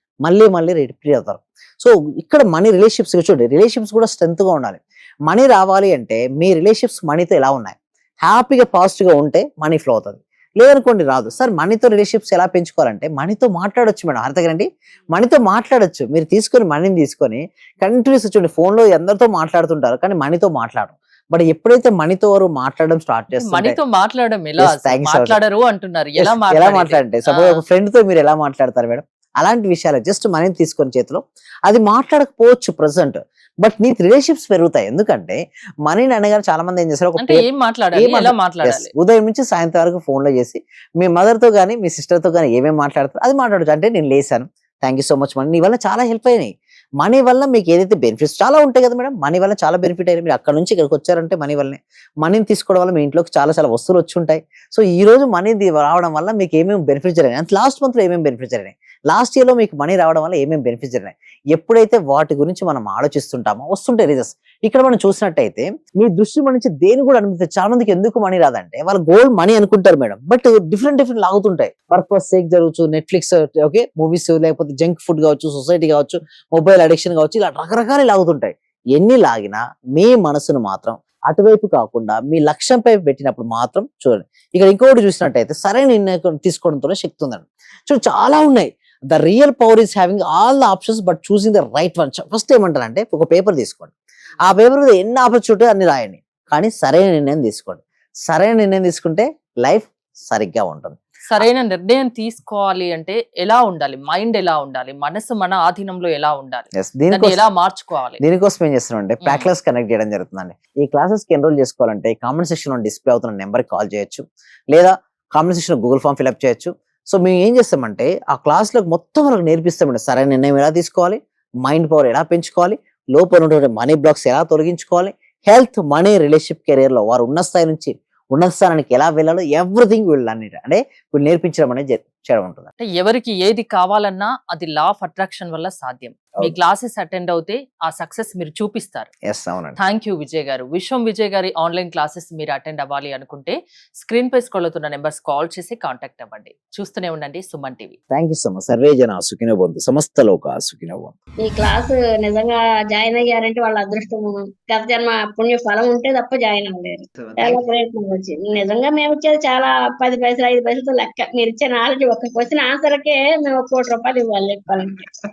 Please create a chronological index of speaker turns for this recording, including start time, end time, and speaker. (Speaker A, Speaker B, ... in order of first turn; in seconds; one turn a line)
Speaker A: 0.2-23.8
Speaker B: 23.4-27.6
Speaker A: 24.6-25.4
Speaker A: 26.2-101.5
Speaker B: 37.2-38.9
Speaker B: 101.3-108.2
Speaker A: 106.8-107.4
Speaker A: 108.2-132.7
Speaker B: 109.2-109.5
Speaker B: 132.8-139.1
Speaker A: 139.2-139.8
Speaker B: 139.8-148.0
Speaker A: 148.1-151.1
Speaker C: 151.4-165.1
Speaker A: 157.2-157.7